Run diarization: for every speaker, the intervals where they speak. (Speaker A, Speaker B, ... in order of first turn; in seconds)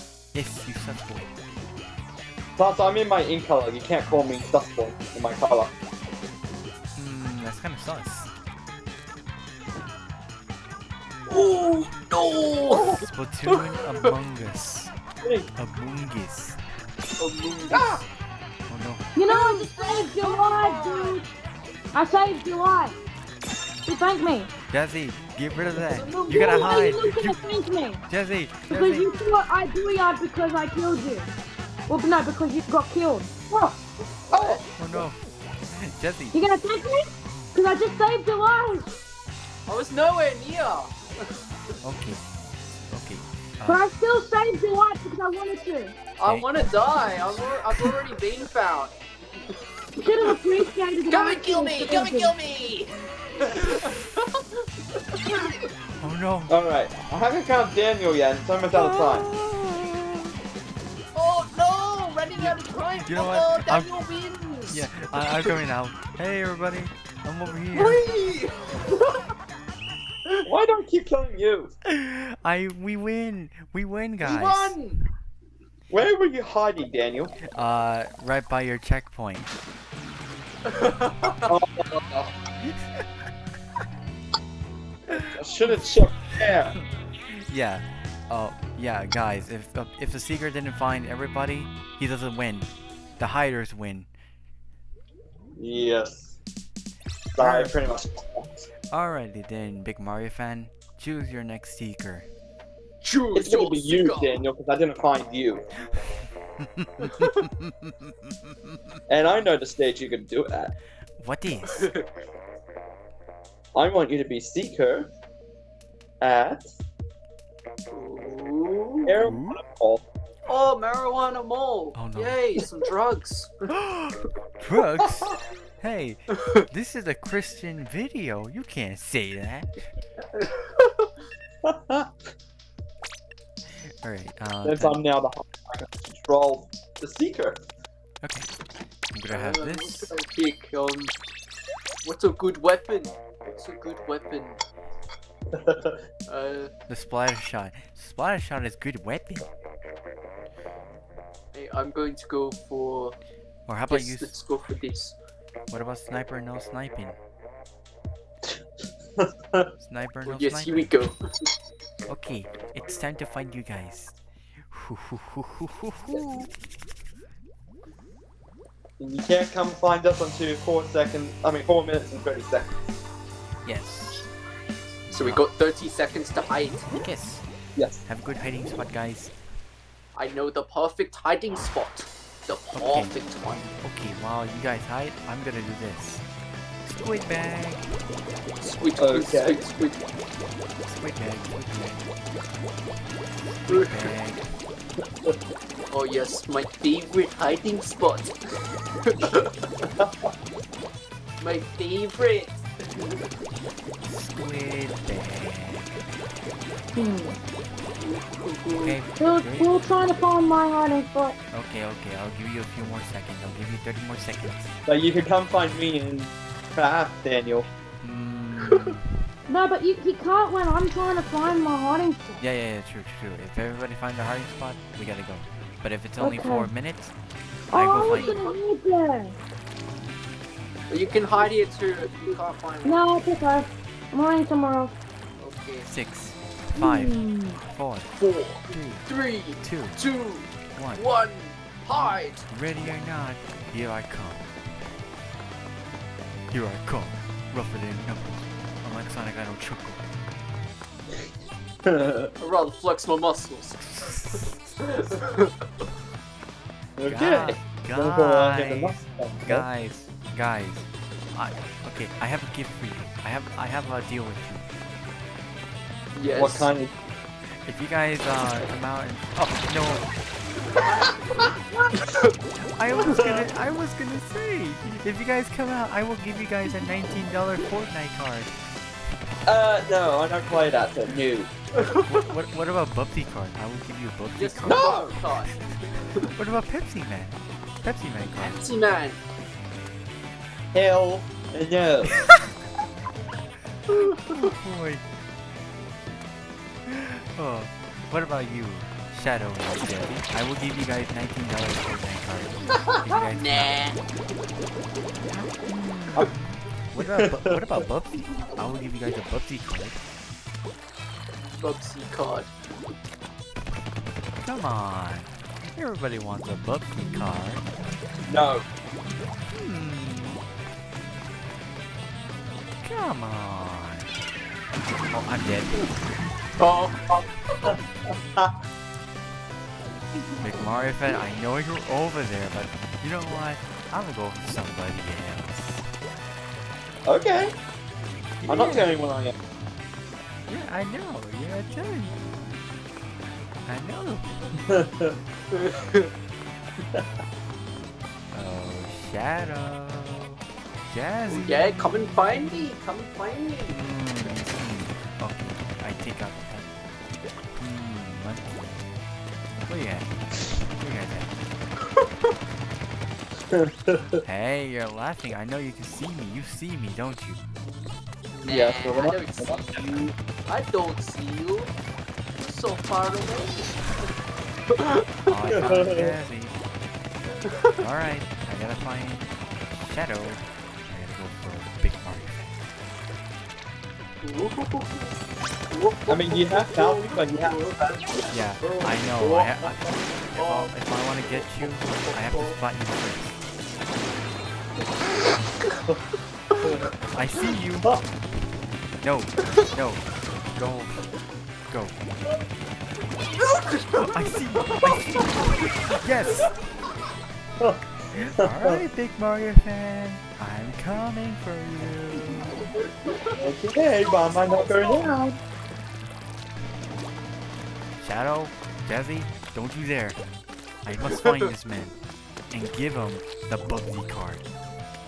Speaker A: 0.3-1.3, 6.9-8.3, 13.0-14.9, 15.6-16.6, 18.7-19.1, 24.7-27.4, 28.1-29.1, 34.8-35.2, 35.7-36.4, 41.8-42.2, 42.9-43.8, 46.2-47.9, 53.6-53.9, 56.0-56.5, 59.4-60.1, 62.3-63.9, 64.7-68.0, 71.8-74.8, 77.5-79.5, 82.6-83.1, 85.1-94.1, 97.4-97.8, 98.9-102.3, 106.6-108.8, 111.2-111.9, 119.2-119.6, 121.9-122.4, 123.7-129.9, 134.0-135.0, 138.2-138.5, 139.1-140.1, 146.9-149.5, 153.7-154.3, 155.7-157.2, 159.8-160.9, 162.1-164.2, 164.7-166.5, 173.6-174.3, 175.1-175.4, 177.0-177.4, 178.1-179.3, 182.7-183.1, 183.8-186.2, 186.8-187.8, 190.8-192.0, 193.6-194.5, 204.0-206.0, 208.8-209.9, 211.5-214.7, 218.0-219.2, 222.4-227.1, 227.7-228.4, 235.9-238.1, 238.7-239.1, 239.6-240.0, 240.7-241.0, 242.5-244.5, 246.5-250.0, 253.9-254.5, 257.1-264.7, 267.6-270.1, 272.7-278.5, 282.0-285.0, 286.2-288.6, 292.1-292.5, 293.9-295.0, 296.9-303.9, 305.3-310.0, 314.4-317.6, 319.5-320.4, 322.8-324.1, 325.1-325.9, 330.4-335.9, 338.4-338.9, 340.5-342.6, 343.6-344.4, 348.3-352.4, 353.7-356.7, 357.6-358.6, 359.6-360.1, 360.7-361.3, 364.2-367.5, 375.3-376.6, 377.8-382.4, 388.3-393.4, 397.1-398.1, 399.0-401.1, 401.7-402.0, 404.0-406.5, 408.1-412.7, 418.0-420.2, 420.8-422.0, 422.5-424.4
Speaker B: 2.6-5.7, 12.7-13.1, 15.2-15.5, 17.7-18.0, 33.5-33.8, 34.3-35.0, 56.5-59.3, 70.4-71.7, 75.9-77.3, 81.4-82.3, 85.1-86.8, 95.6-96.3, 97.3-98.7, 103.3-105.7, 109.1-110.7, 113.7-115.1, 116.2-116.6, 119.0-120.0, 131.6-132.1, 134.6-137.6, 145.5-146.0, 159.2-159.7, 169.0-172.7, 177.8-178.0, 189.0-189.6, 200.0-200.3, 214.9-217.7, 251.8-252.3, 257.0-259.6, 266.3-266.9, 273.1-273.5, 279.4-281.5, 284.7-285.2, 290.7-292.2, 307.0-307.8, 318.2-318.6, 327.1-327.8, 337.1-337.5, 338.5-339.4, 344.7-345.2, 363.5-364.2, 368.4-370.1, 375.5-376.1, 386.1-388.3, 396.6-396.9, 408.4-408.8, 413.4-415.4
Speaker C: 11.3-14.1, 17.2-17.9, 19.2-21.2, 25.7-27.0, 34.3-34.6, 39.7-41.4, 46.2-48.9, 51.1-54.5, 61.1-65.5, 67.7-69.3, 74.2-75.0, 80.7-81.5, 103.0-104.4, 111.6-112.0, 117.9-119.2, 120.5-123.7, 130.3-131.1, 139.3-141.1, 142.0-144.6, 146.3-146.7, 151.5-153.2, 153.9-155.1, 160.2-161.5, 175.1-176.9, 180.1-183.8, 188.6-190.0, 193.7-194.1, 195.9-199.9, 201.4-202.6, 208.0-209.0, 228.0-228.6, 230.9-233.0, 235.4-235.9, 238.2-242.5, 252.4-255.5, 266.1-266.7, 270.8-272.4, 281.8-282.3, 284.4-286.3, 288.4-289.2, 293.9-294.5, 303.1-304.0, 311.6-312.5, 326.6-327.7, 345.5-346.1, 351.3-353.9, 368.4-371.7, 372.4-374.0, 374.7-375.8, 377.4-377.7, 384.2-385.1, 385.7-389.7, 390.3-390.7, 391.3-392.6, 396.5-396.8, 403.3-405.2, 412.6-413.4, 421.0-421.5
Speaker D: 19.1-21.3, 21.9-22.9, 23.8-24.5, 26.3-28.1, 28.7-31.3, 31.9-33.3, 36.3-38.9, 43.6-45.9, 50.0-52.3, 206.9-207.3, 209.2-211.4, 219.5-222.4, 226.2-226.7, 227.7-229.3, 232.8-234.9, 236.8-237.6, 414.0-415.1